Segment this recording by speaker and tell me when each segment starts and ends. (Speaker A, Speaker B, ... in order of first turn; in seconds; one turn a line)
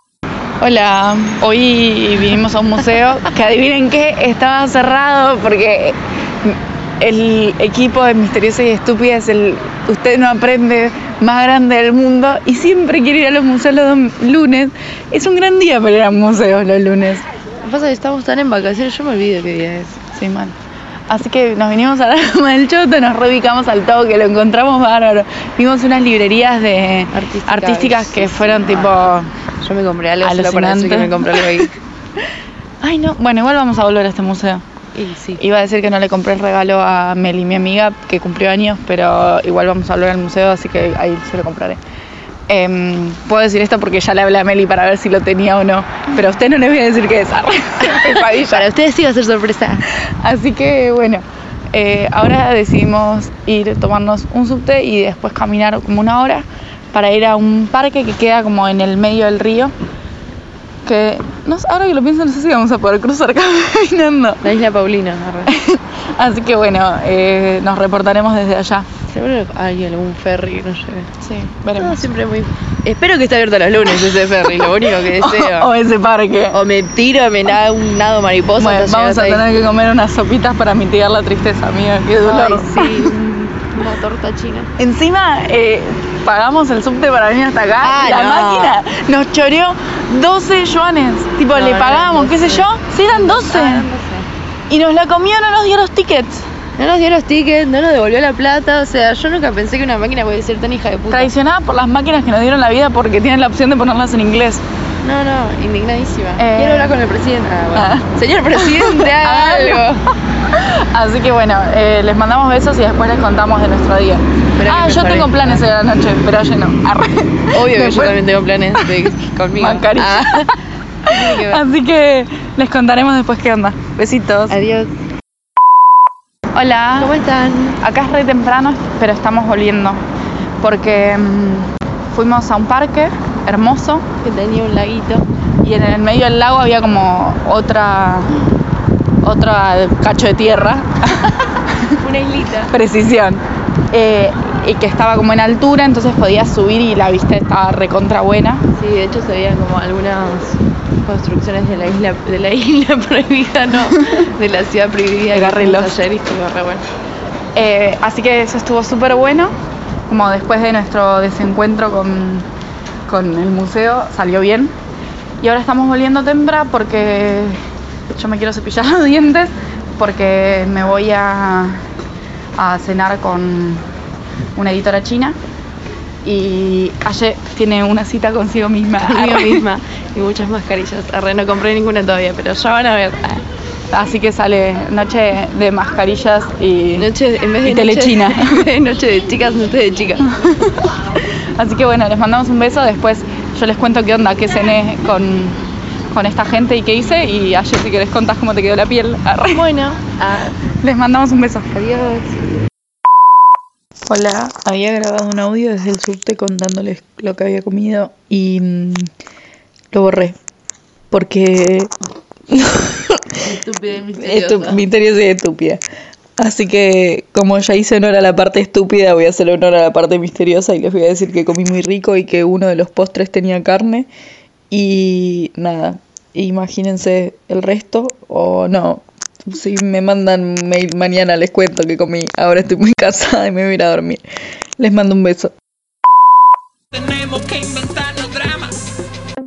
Speaker A: 0.6-17.2
Speaker B: 17.6-20.0
Speaker A: 20.1-20.6
Speaker A: 21.1-29.3
Speaker B: 27.1-31.7
Speaker A: 30.2-31.7
Speaker A: 32.8-34.6
Speaker B: 34.9-35.4
Speaker A: 35.4-41.8
Speaker A: 42.5-48.7
Speaker B: 48.3-49.9
Speaker A: 49.9-59.7
Speaker A: 60.8-64.5
Speaker B: 64.4-65.5
Speaker A: 65.5-69.0
Speaker B: 69.0-71.1
Speaker A: 71.2-72.1
Speaker B: 71.8-75.7
Speaker A: 74.8-76.6
Speaker B: 76.5-79.5
Speaker A: 78.6-83.2
Speaker B: 82.2-84.7
Speaker A: 84.8-93.9
Speaker B: 87.8-88.8
Speaker B: 91.5-94.3
Speaker A: 94.7-96.4
Speaker B: 96.8-101.3
Speaker A: 101.1-104.6
Speaker B: 105.0-110.0
Speaker A: 106.4-107.0
Speaker A: 107.7-109.9
Speaker A: 110.4-120.5
Speaker B: 114.5-115.6
Speaker B: 117.5-120.5
Speaker A: 121.0-124.6
Speaker B: 121.1-121.6
Speaker B: 124.5-124.9
Speaker A: 126.5-127.2
Speaker B: 127.0-127.8
Speaker A: 127.8-130.0
Speaker A: 130.6-134.1
Speaker B: 134.2-135.2
Speaker A: 135.6-138.4
Speaker A: 139.2-142.0
Speaker B: 142.0-142.7
Speaker A: 142.7-148.7
Speaker B: 148.7-156.8
Speaker A: 155.3-156.0
Speaker A: 157.5-159.5
Speaker A: 160.1-162.4
Speaker A: 163.1-164.7
Speaker A: 165.4-167.6
Speaker A: 168.1-171.8
Speaker A: 172.6-173.8
Speaker A: 174.5-175.4
Speaker A: 176.2-179.7
Speaker B: 179.0-183.4
Speaker A: 183.9-188.7
Speaker B: 187.0-190.3
Speaker A: 190.2-190.7
Speaker A: 191.6-195.6
Speaker A: 196.1-199.7
Speaker B: 199.5-200.5
Speaker A: 200.6-201.7
Speaker B: 201.7-202.3
Speaker A: 204.1-209.1
Speaker A: 209.9-210.3
Speaker A: 211.1-211.9
Speaker A: 212.5-213.5
Speaker B: 213.4-214.8
Speaker A: 214.1-215.8
Speaker A: 216.4-224.1
Speaker A: 224.7-234.2
Speaker A: 234.8-235.5